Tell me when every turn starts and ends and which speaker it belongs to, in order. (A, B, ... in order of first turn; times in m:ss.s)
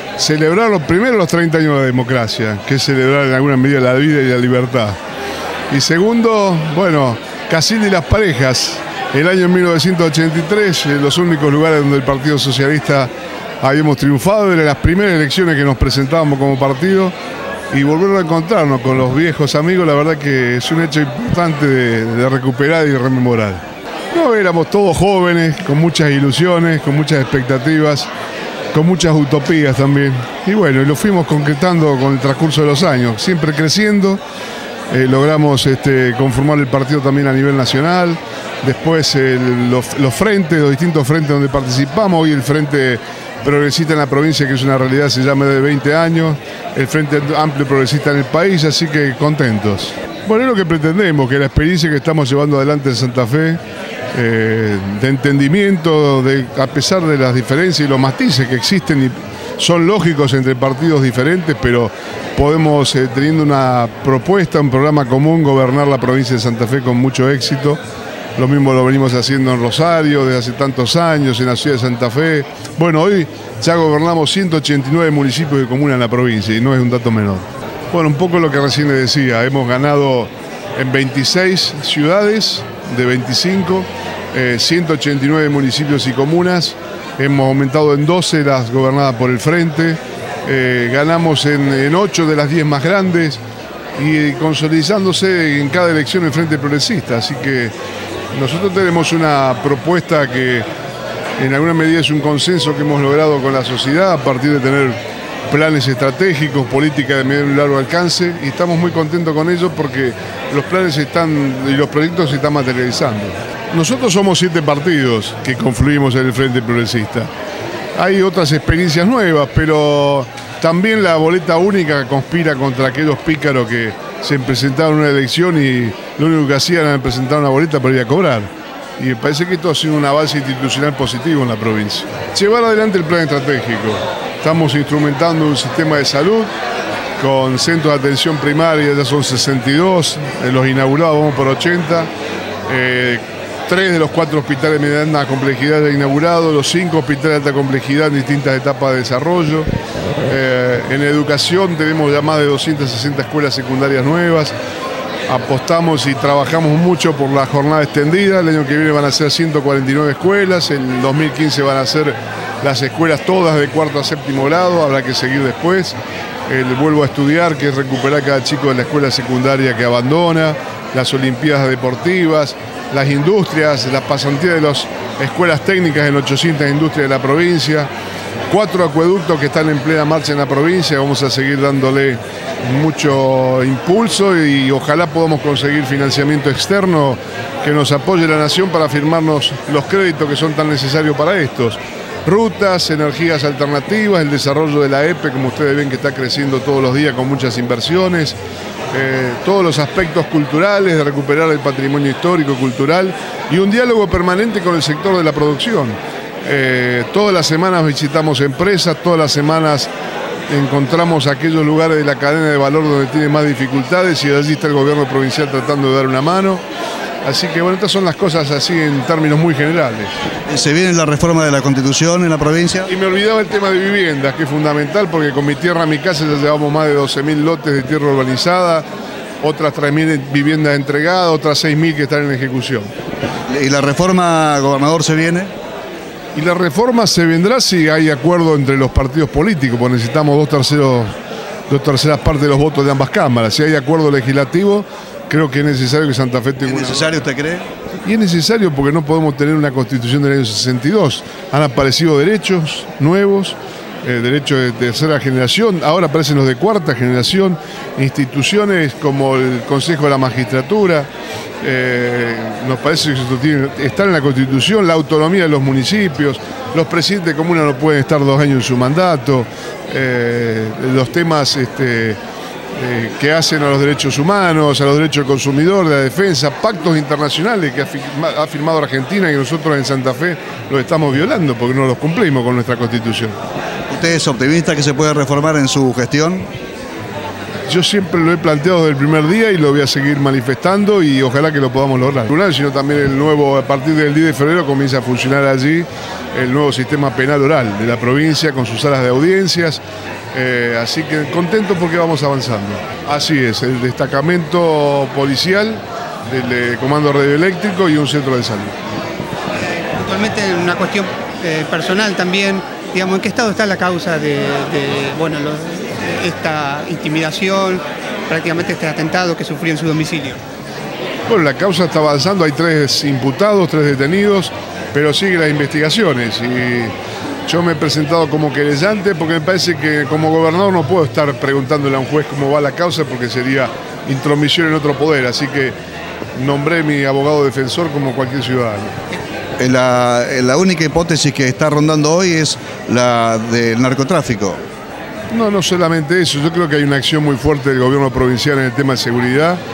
0:00.2-0:05.0 A
0:05.7-0:13.1 A
0:13.6-0:17.2 A
0:17.7-0:28.1 A
0:28.7-0:34.2 A
0:34.9-0:53.6 A
0:54.1-1:07.8 A
1:08.4-1:33.4 A
1:34.0-1:37.7 A
1:38.3-1:40.7 A
1:41.4-1:57.3 A
1:58.0-2:16.5 A
2:17.2-2:22.1 A
2:22.7-2:29.7 A
2:30.2-2:34.5 A
2:35.3-2:46.0 A
2:46.5-2:57.9 A
2:58.5-3:18.4 A
3:18.9-3:29.9 A
3:30.5-3:36.6 A
3:37.2-3:40.1 A
3:40.5-3:42.9 B
3:42.9-3:48.8 A
3:49.4-3:52.9 A
3:53.5-3:55.5 B
3:56.4-4:01.1 A
4:01.7-4:07.3 A
4:06.6-4:07.7 B
4:08.0-4:21.1 A
4:21.6-4:32.2 A
4:32.8-4:43.4 A
4:43.9-4:46.5 B
4:47.7-4:59.8 A
5:00.3-5:08.8 A
5:09.5-5:20.4 C
5:21.3-5:26.9 A
5:27.5-5:35.8 A
5:36.4-5:39.0 A
5:39.6-5:44.6 B
5:45.3-5:49.6 A